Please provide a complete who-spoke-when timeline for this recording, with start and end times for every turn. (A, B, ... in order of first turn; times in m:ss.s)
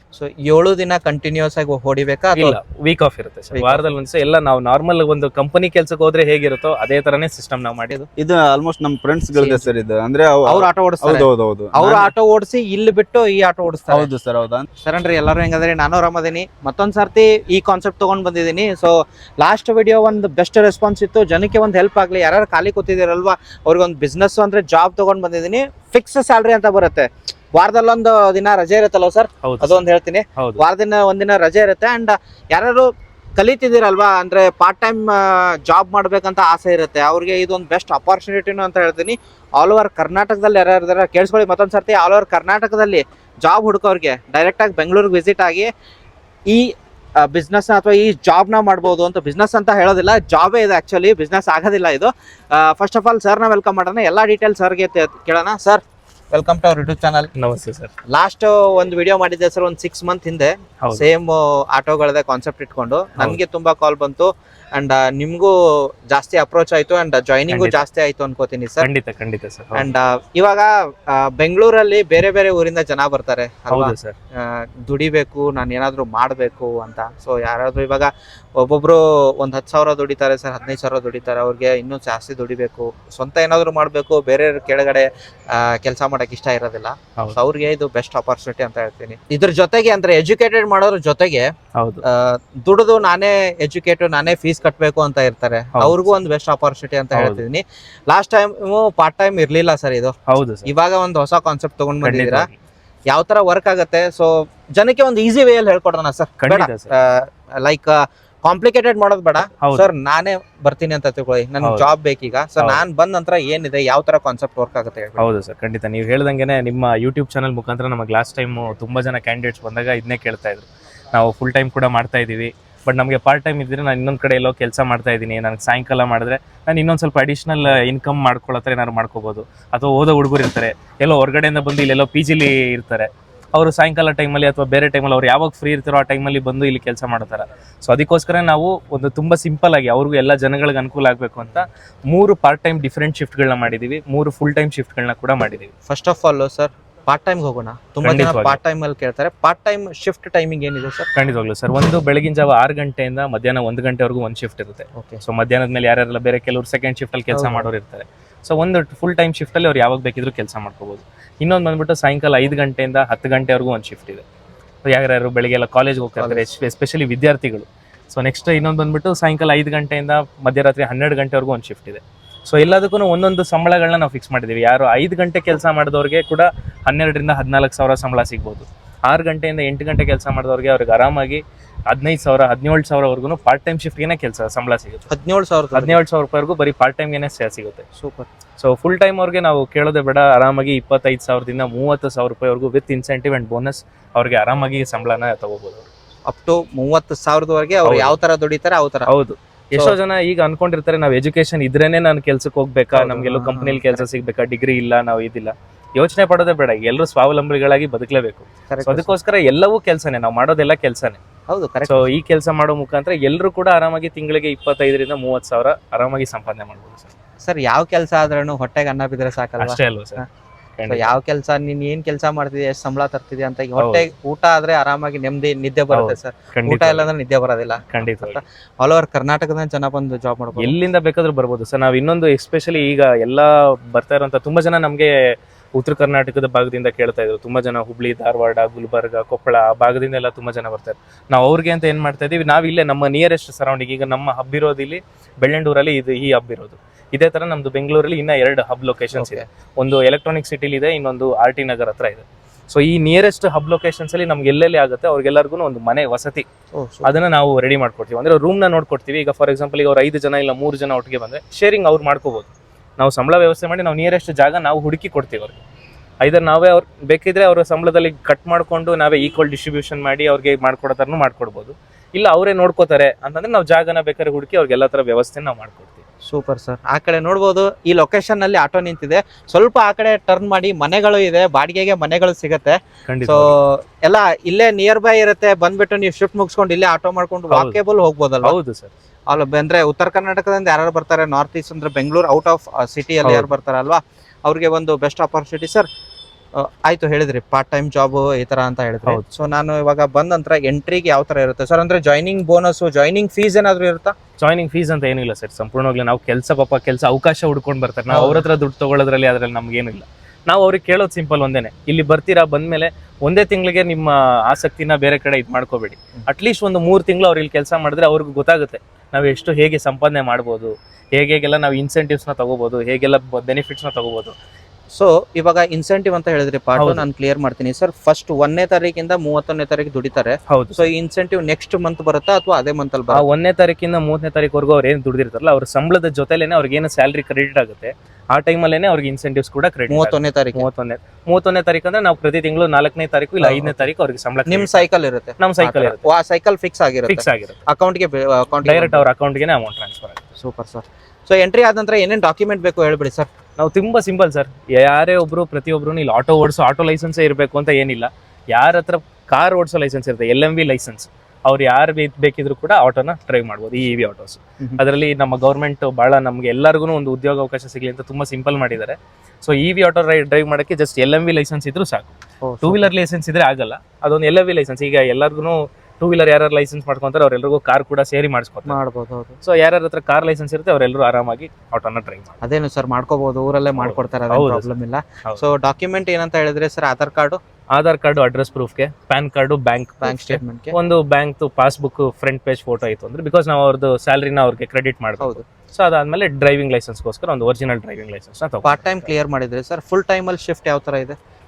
0:00.1-0:02.6 A
0:02.4-0:07.9 B
0:03.5-0:03.8 A
0:08.2-0:12.1 C
0:09.3-0:09.7 A
0:10.4-0:14.1 A
0:13.9-0:14.6 C
0:14.8-0:45.7 A
0:29.4-0:30.6 B
0:46.5-0:57.3 A
0:57.4-0:57.9 B
0:58.1-1:08.9 A
1:07.5-1:07.8 B
1:08.8-1:09.9 B
1:09.7-1:31.5 A
1:13.7-1:14.1 B
1:31.8-1:32.0 B
1:32.0-1:40.1 A
1:35.8-1:36.2 B
1:37.1-1:37.4 B
1:40.3-1:40.7 B
1:40.6-1:42.5 A
1:42.0-1:42.6 B
1:43.1-1:55.3 A
1:46.4-1:46.9 B
1:49.6-1:49.9 B
1:51.6-1:51.9 B
1:55.2-2:25.7 B
2:25.9-2:31.1 A
2:28.0-2:28.6 B
2:31.1-2:44.2 B
2:35.0-2:35.2 A
2:37.3-2:37.7 A
2:44.8-3:05.1 B
2:46.2-2:46.4 A
3:05.1-3:06.0 A
3:05.7-3:07.8 B
3:07.9-3:08.3 A
3:08.6-3:15.9 B
3:16.3-3:19.1 A
3:17.8-3:18.2 B
3:19.1-3:31.2 B
3:22.9-3:24.1 A
3:28.7-3:29.1 A
3:31.5-3:32.1 A
3:31.9-3:37.1 B
3:37.4-3:40.2 A
3:39.6-3:40.2 B
3:40.8-3:41.2 B
3:40.9-3:50.8 A
3:43.8-3:44.0 B
3:45.9-3:47.1 B
3:47.9-3:48.4 B
3:50.6-4:16.5 B
4:09.2-4:09.4 A
4:16.7-4:17.2 A
4:17.0-4:25.6 B
4:26.2-4:36.0 B
4:36.3-4:48.6 A
4:43.1-4:43.6 B
4:47.5-4:47.8 B
4:48.4-4:48.9 B
4:49.3-4:55.9 A
4:53.2-4:53.5 B
4:56.5-5:04.1 A
5:04.4-5:24.4 B
5:08.1-5:08.4 A
5:24.9-5:33.3 A
5:26.8-5:27.1 B
5:30.5-5:30.9 B
5:33.1-5:44.9 B
5:39.9-5:40.7 A
5:43.4-5:43.9 A
5:44.4-5:49.1 A
5:45.4-5:46.1 B
5:47.1-5:47.6 B
5:48.6-5:50.2 B
5:50.4-5:53.3 A
5:53.6-6:18.8 B
6:12.4-6:12.9 A
6:18.7-6:19.4 A
6:19.4-6:22.4 B
6:22.4-6:27.4 A
6:23.8-6:24.7 B
6:27.7-6:38.9 B
6:30.0-6:30.7 A
6:38.6-6:41.2 A